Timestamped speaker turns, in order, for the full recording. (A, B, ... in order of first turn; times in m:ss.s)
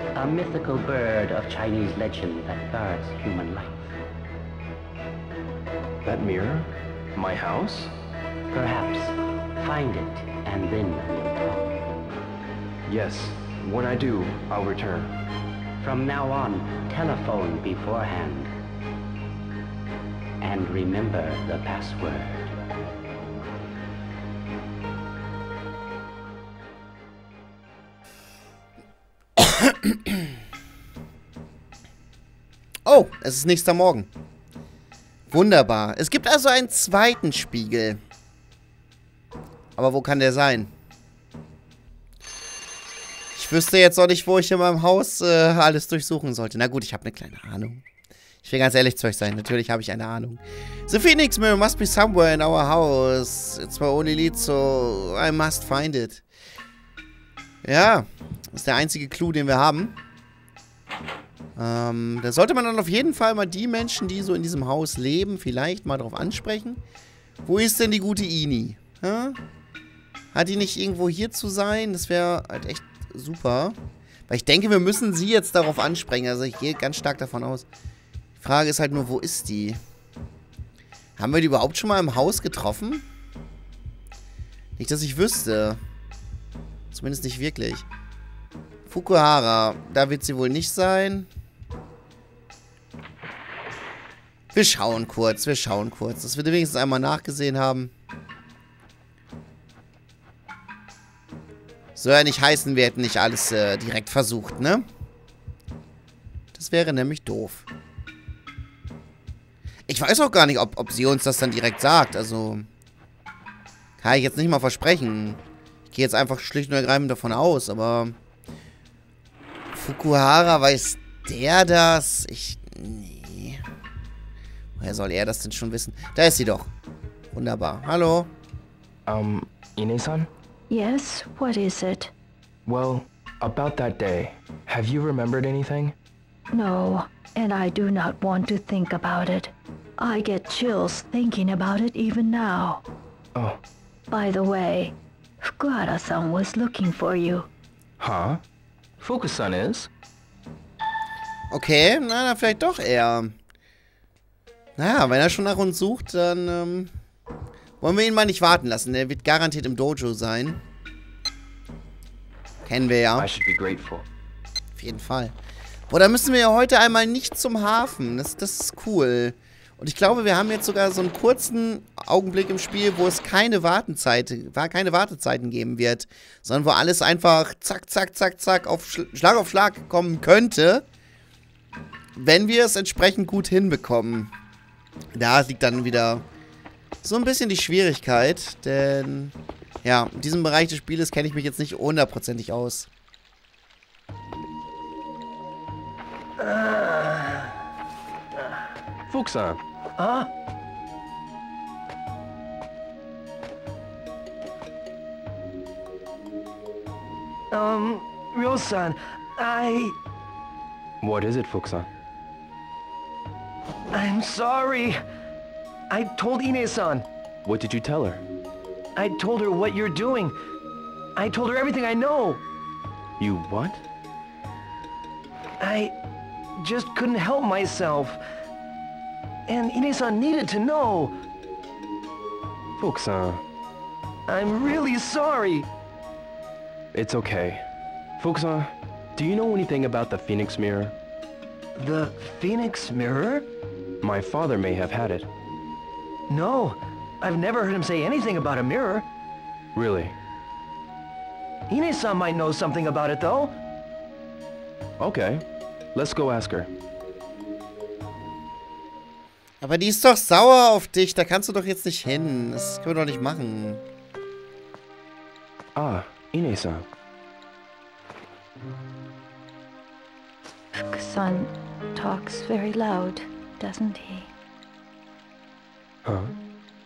0:00.1-0:04.0 A
0:06.0-0:07.9 B
0:08.5-0:11.9 A
0:12.9-0:15.1 B
0:15.8-0:18.5 A
0:20.4-0:22.6 A
0:29.4-0:30.2 C
0:32.9-0:34.1 C
0:35.3-0:38.0 C
0:39.8-0:40.7 C
0:43.4-0:47.8 C
0:48.4-0:56.2 C
0:57.6-1:00.0 C
1:01.6-1:06.8 C
1:07.4-1:09.4 C
1:10.3-1:13.8 C
1:14.3-1:17.7 C
1:18.4-1:19.8 C
1:21.2-1:23.0 C
1:24.8-1:25.8 C
1:26.9-1:27.9 C
1:28.9-1:31.3 C
1:34.5-1:37.9 C
1:42.0-1:44.9 C
1:46.5-1:47.6 C
1:49.9-1:52.7 C
1:54.0-1:58.2 C
1:59.7-2:03.6 C
2:04.8-2:06.7 C
2:07.3-2:08.3 C
2:09.1-2:10.3 B
2:10.7-2:12.1 D
2:12.6-2:16.0 B
2:16.5-2:22.8 D
2:23.4-2:23.6 B
2:24.1-2:27.5 D
2:28.0-2:28.4 B
2:29.0-2:29.9 B
2:31.5-2:33.4 C
2:34.8-2:36.9 C
2:37.8-2:40.6 C
2:42.7-2:43.3 C
2:43.2-2:44.1 B
2:44.8-2:45.4 C
2:45.9-3:00.8 C
3:02.2-3:04.3 C
3:05.2-3:06.2 C
3:07.0-3:12.9 C
3:16.4-3:17.5 E
3:19.1-3:19.6 B
3:20.0-3:20.3 E
3:27.5-3:30.0 E
3:31.0-3:31.9 B
3:33.9-3:35.0 E
3:35.9-3:37.1 E
3:37.4-3:38.2 B
3:39.0-3:40.4 E
3:41.2-3:42.4 E
3:43.2-3:43.8 B
3:45.6-3:45.9 E
3:46.6-3:48.2 E
3:49.5-3:51.1 E
3:52.8-3:53.4 B
3:54.3-3:55.7 E
3:56.9-4:01.0 B
4:01.8-4:03.5 E
4:04.0-4:05.3 B
4:06.3-4:09.1 E
4:09.7-4:10.2 B
4:11.7-4:13.6 E
4:15.0-4:16.7 B
4:19.6-4:23.8 C
4:25.8-4:26.9 B
4:30.9-4:34.3 D
4:36.0-4:36.4 B